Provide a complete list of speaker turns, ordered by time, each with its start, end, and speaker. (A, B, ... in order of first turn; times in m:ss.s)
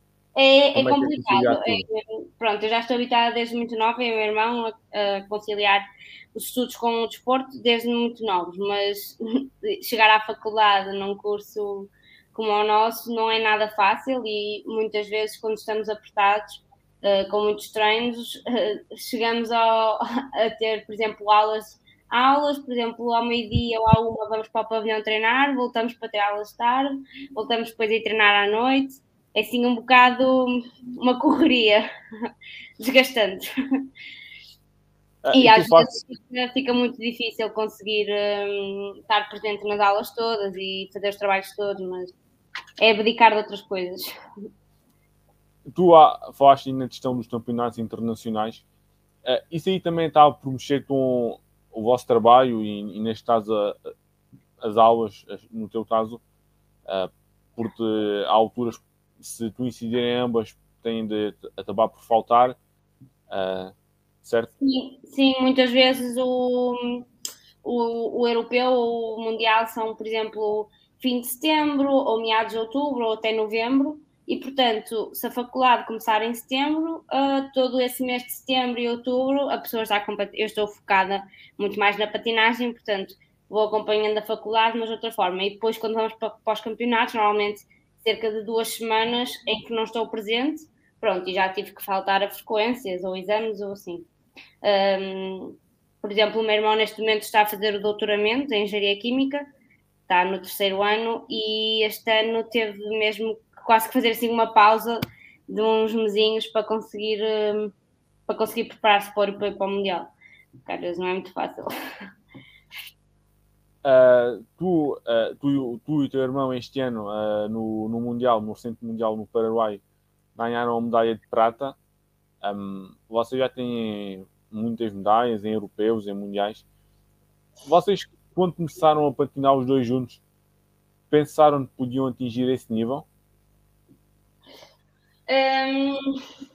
0:00.4-0:31.8 A
0:00.7-0:01.8 B
0:32.8-0:33.5 A
0:35.2-0:35.9 B
0:35.3-0:42.1 A
0:42.8-0:44.1 A
0:45.7-0:48.6 B
0:49.2-0:53.8 B
0:54.6-0:56.2 B
0:56.8-1:02.6 B
1:03.3-1:04.5 B
1:04.6-1:07.0 A
1:07.6-1:34.0 A
1:34.6-1:39.4 A
1:40.1-1:47.7 A
1:48.3-1:50.1 A
1:50.6-1:51.7 A
1:53.8-1:59.8 B
2:00.4-2:01.8 B
2:02.4-2:06.6 B
2:07.6-2:10.2 B
2:11.1-2:13.0 B
2:15.3-2:16.0 A